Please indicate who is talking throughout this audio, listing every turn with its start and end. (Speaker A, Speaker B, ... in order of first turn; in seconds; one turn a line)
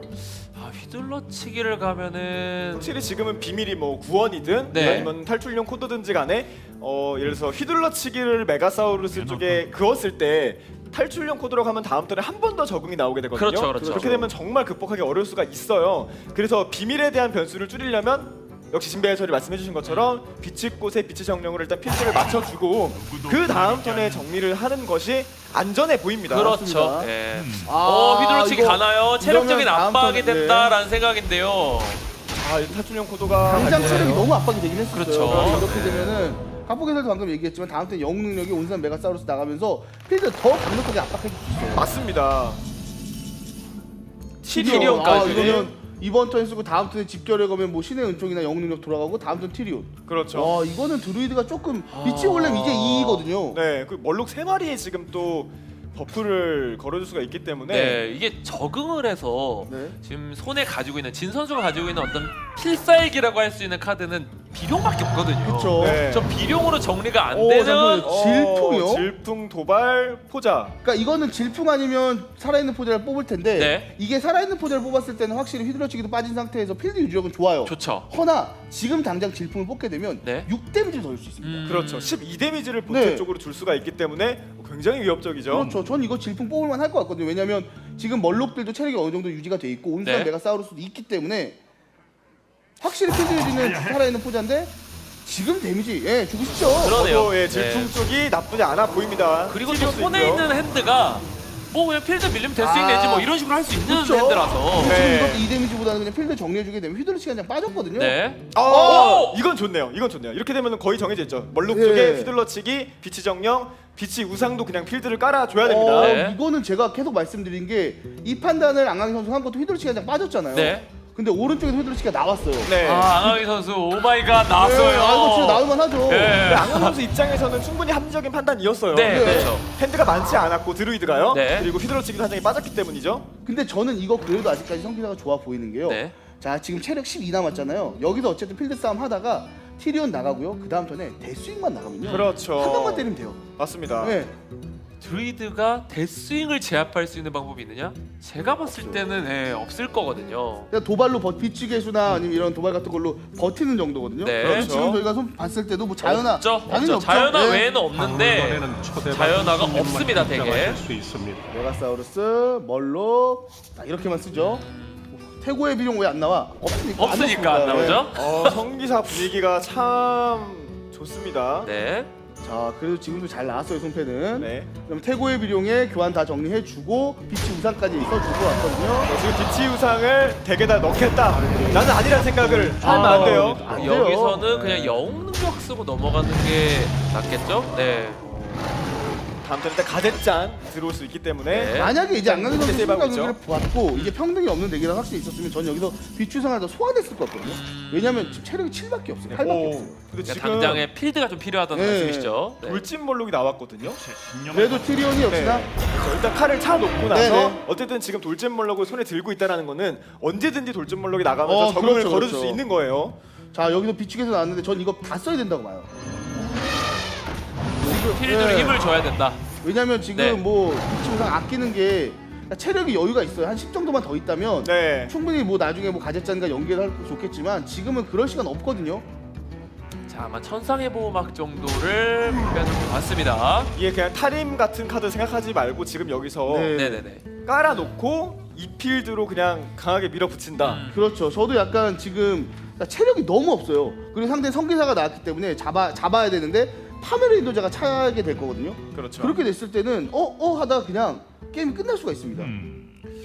Speaker A: 0.4-2.9
Speaker B: 2.8-26.5
Speaker A: 4.7-5.1
Speaker C: 4.7-5.1
Speaker D: 9.1-9.7
Speaker A: 13.3-14.2
Speaker C: 13.8-14.3
Speaker A: 19.8-20.2
Speaker D: 22.9-24.3
Speaker A: 26.3-32.0
Speaker C: 26.4-27.1
Speaker D: 27.3-27.7
Speaker C: 27.6-30.8
Speaker B: 32.3-34.2
Speaker C: 33.4-41.9
Speaker A: 33.5-34.2
Speaker A: 34.9-36.1
Speaker B: 35.2-36.0
Speaker B: 41.7-42.6
Speaker A: 44.4-45.7
Speaker B: 44.5-45.7
Speaker C: 44.5-53.6
Speaker B: 50.1-50.6
Speaker A: 51.9-53.3
Speaker B: 53.5-58.0
Speaker A: 57.7-68.1
Speaker C: 59.7-60.0
Speaker C: 65.4-66.0
Speaker B: 65.8-66.3
Speaker C: 67.3-69.1
Speaker B: 68.0-70.8
Speaker C: 70.8-81.7
Speaker A: 73.6-73.9
Speaker A: 77.6-78.1
Speaker A: 80.2-80.5
Speaker A: 81.4-82.2
Speaker B: 81.6-85.7
Speaker C: 82.9-83.3
Speaker C: 85.5-91.6
Speaker A: 90.0-90.3
Speaker C: 92.8-97.0
Speaker D: 93.5-94.0
Speaker A: 96.8-97.9
Speaker B: 96.9-100.5
Speaker A: 99.5-105.0
Speaker C: 102.6-109.2
Speaker B: 104.8-105.5
Speaker A: 108.0-109.3
Speaker B: 108.5-116.2
Speaker C: 111.7-112.3
Speaker C: 115.6-123.4
Speaker A: 116.0-116.4
Speaker A: 120.5-120.8
Speaker B: 122.6-123.2
Speaker A: 122.8-127.0
Speaker C: 124.5-126.5
Speaker B: 126.4-133.3
Speaker A: 128.9-129.7
Speaker C: 129.0-129.5
Speaker A: 131.3-131.7
Speaker C: 133.4-143.5
Speaker A: 135.8-136.1
Speaker A: 142.0-142.3
Speaker B: 142.1-144.2
Speaker C: 144.0-144.3
Speaker A: 145.0-150.7
Speaker C: 148.6-149.0
Speaker C: 150.7-157.7
Speaker A: 154.2-154.7
Speaker B: 154.4-155.0
Speaker A: 156.0-160.8
Speaker D: 157.9-161.4
Speaker C: 161.5-168.0
Speaker A: 164.3-165.0
Speaker A: 166.9-168.6
Speaker B: 167.8-171.7
Speaker A: 171.6-172.1
Speaker C: 172.4-179.1
Speaker B: 174.4-174.7
Speaker B: 179.1-183.9
Speaker D: 181.5-181.8
Speaker C: 181.5-181.8
Speaker C: 182.5-185.1
Speaker A: 182.8-188.2
Speaker C: 188.2-188.7
Speaker B: 189.4-193.4
Speaker A: 191.5-192.0
Speaker C: 191.7-200.0
Speaker A: 197.4-198.4
Speaker B: 199.3-200.9
Speaker A: 200.2-202.8
Speaker C: 201.7-202.4
Speaker B: 202.6-204.0
Speaker D: 203.8-205.0
Speaker C: 204.5-205.7
Speaker B: 205.3-213.2
Speaker C: 207.1-207.6
Speaker C: 211.4-212.6
Speaker C: 213.5-215.9
Speaker C: 217.8-218.8
Speaker A: 217.8-219.4
Speaker C: 219.6-229.0
Speaker A: 220.1-220.4
Speaker B: 224.6-225.1
Speaker A: 230.1-233.7
Speaker B: 233.7-236.8
Speaker C: 236.5-237.1
Speaker A: 236.7-237.2
Speaker B: 237.4-240.8
Speaker A: 240.6-241.1
Speaker C: 240.9-252.5
Speaker B: 248.9-249.4
Speaker D: 252.4-252.9